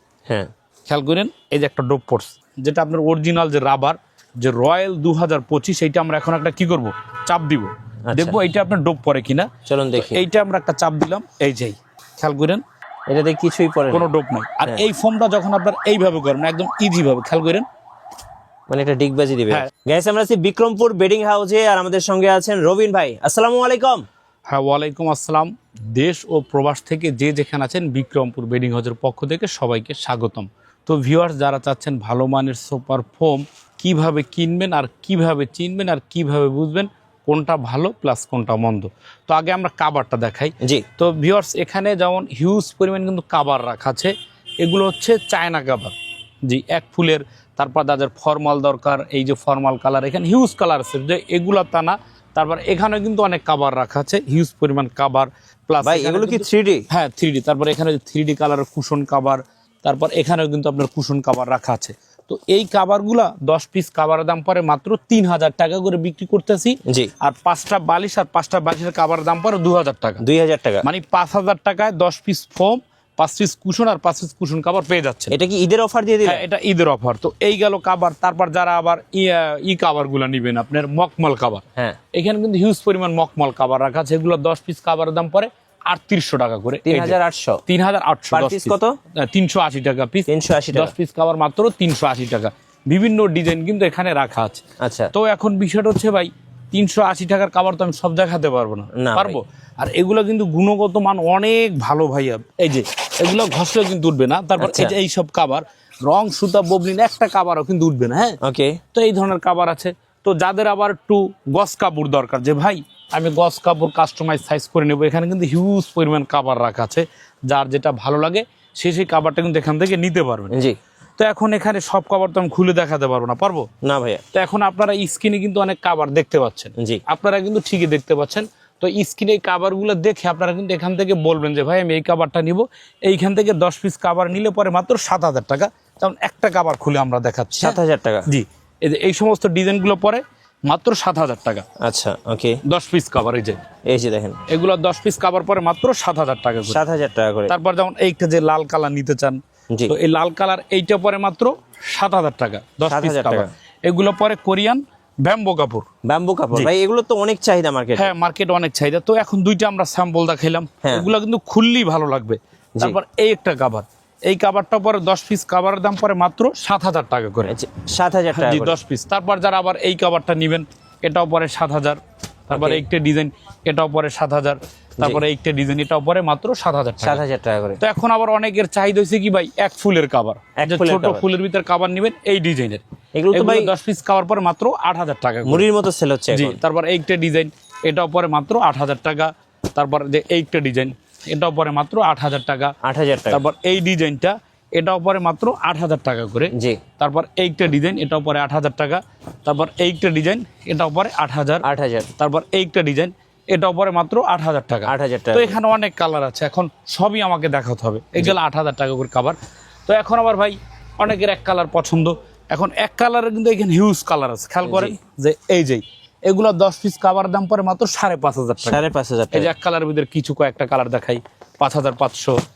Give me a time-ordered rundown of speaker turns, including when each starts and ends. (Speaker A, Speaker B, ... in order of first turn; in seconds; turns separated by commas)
Speaker A: 0.9-12.6, Speaker B: 8.1-8.4, Speaker B: 9.7-10.2, Speaker B: 13.1-14.1, Speaker A: 13.9-17.6, Speaker B: 18.7-24.1, Speaker A: 24.5-45.9, Speaker A: 46.5-70.2, Speaker B: 55.8-56.9, Speaker B: 66.8-67.1, Speaker B: 70.2-70.8, Speaker A: 70.8-75.3, Speaker B: 75.3-76.4, Speaker A: 76.2-94.6, Speaker B: 86.8-87.6, Speaker B: 88.3-89.0, Speaker B: 90.3-90.9, Speaker B: 94.8-95.1, Speaker A: 95.1-108.4, Speaker B: 99.0-99.4, Speaker B: 104.6-105.0, Speaker B: 108.4-108.8, Speaker A: 108.9-120.5, Speaker B: 120.5-120.8, Speaker A: 121.2-123.7, Speaker B: 123.8-124.2, Speaker A: 124.3-141.6, Speaker B: 137.6-138.3, Speaker B: 141.8-142.6, Speaker A: 142.7-143.6, Speaker B: 143.9-144.4, Speaker A: 144.5-146.8, Speaker B: 146.7-147.5, Speaker A: 147.5-155.8, Speaker B: 152.9-153.5, Speaker B: 156.1-158.1, Speaker A: 157.9-167.5, Speaker B: 167.4-168.7, Speaker A: 168.3-177.2, Speaker B: 172.5-172.8, Speaker B: 177.0-177.8, Speaker A: 177.8-185.6, Speaker B: 180.6-181.2, Speaker B: 183.1-183.7, Speaker B: 185.4-186.6, Speaker A: 186.3-192.7, Speaker B: 192.8-193.4, Speaker A: 193.3-201.6, Speaker B: 196.5-196.8, Speaker B: 201.6-202.1, Speaker A: 202.2-218.8, Speaker B: 204.9-205.6, Speaker B: 214.6-215.0, Speaker B: 218.6-219.5, Speaker A: 219.3-222.3